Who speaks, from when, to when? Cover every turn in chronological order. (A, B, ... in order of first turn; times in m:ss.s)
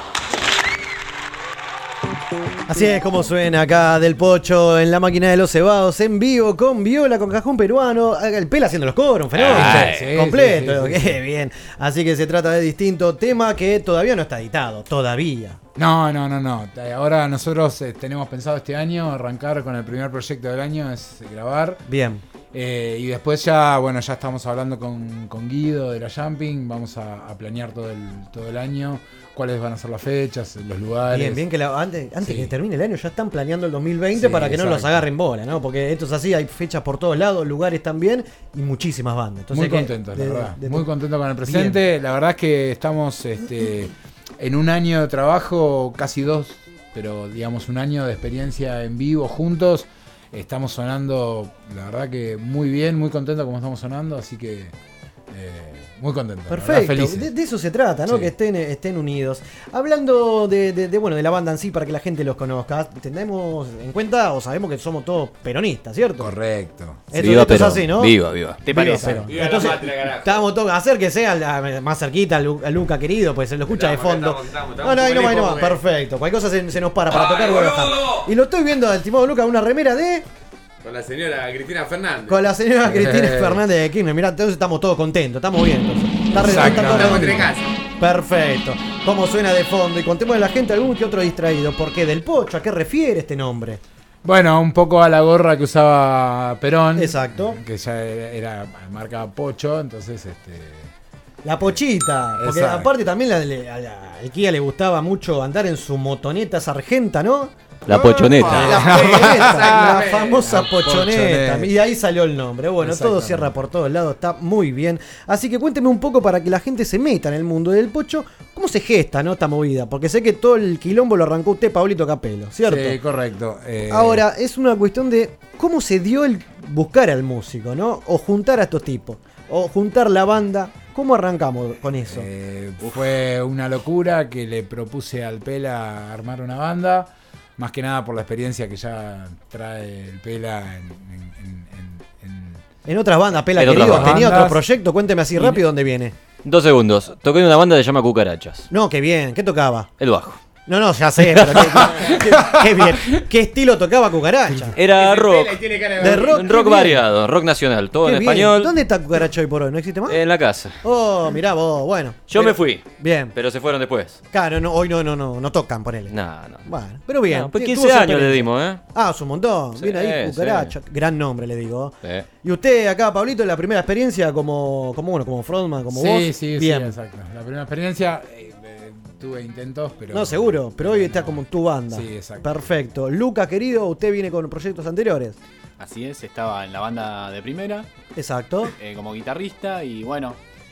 0:02.7-0:15.6 A
0:09.3-0:10.1 B
0:09.4-0:11.2 C
0:15.8-0:21.8 C
0:21.9-0:22.2 A
0:22.5-0:31.4 C
0:31.1-0:40.9 A
0:32.2-0:32.5 C
0:34.2-0:35.0 C
0:39.5-0:54.7 C
0:41.4-0:41.8 A
0:55.3-0:57.3 C
0:56.5-1:06.3 A
1:06.2-1:07.1 C
1:07.1-1:20.3 A
1:07.1-1:08.6 B
1:08.6-1:09.6 D
1:09.3-1:10.4 E
1:13.6-1:15.8 E
1:17.1-1:18.2 E
1:20.8-1:22.4 E
1:22.3-1:33.8 A
1:22.8-1:23.6 C
1:26.4-1:27.5 C
1:26.5-1:27.7 E
1:34.2-1:40.9 C
1:37.0-1:37.6 A
1:41.4-2:03.0 A
1:42.4-1:42.9 C
1:47.9-1:48.9 B
1:48.5-1:51.7 C
1:49.6-1:50.4 E
1:52.9-1:53.4 C
2:02.6-2:04.2 C
2:03.9-2:12.3 A
2:12.0-2:22.6 C
2:12.8-2:13.1 D
2:22.8-2:26.2 A
2:23.6-2:24.3 B
2:23.6-2:24.6 C
2:26.4-2:28.7 B
2:28.7-2:29.9 A
2:30.0-2:30.4 B
2:30.7-2:34.8 A
2:32.3-2:32.6 C
2:34.8-2:38.7 B
2:34.8-2:36.4 E
2:36.0-2:37.0 A
2:38.0-2:40.2 A
2:40.1-2:40.8 B
2:40.8-2:43.3 A
2:42.3-2:44.2 B
2:44.3-2:57.0 A
2:46.1-2:46.7 B
2:47.3-2:48.8 B
2:49.8-2:50.7 B
2:55.9-3:02.7 C
3:00.1-3:05.4 A
3:05.8-3:07.9 D
3:08.2-3:08.7 A
3:08.8-3:10.4 D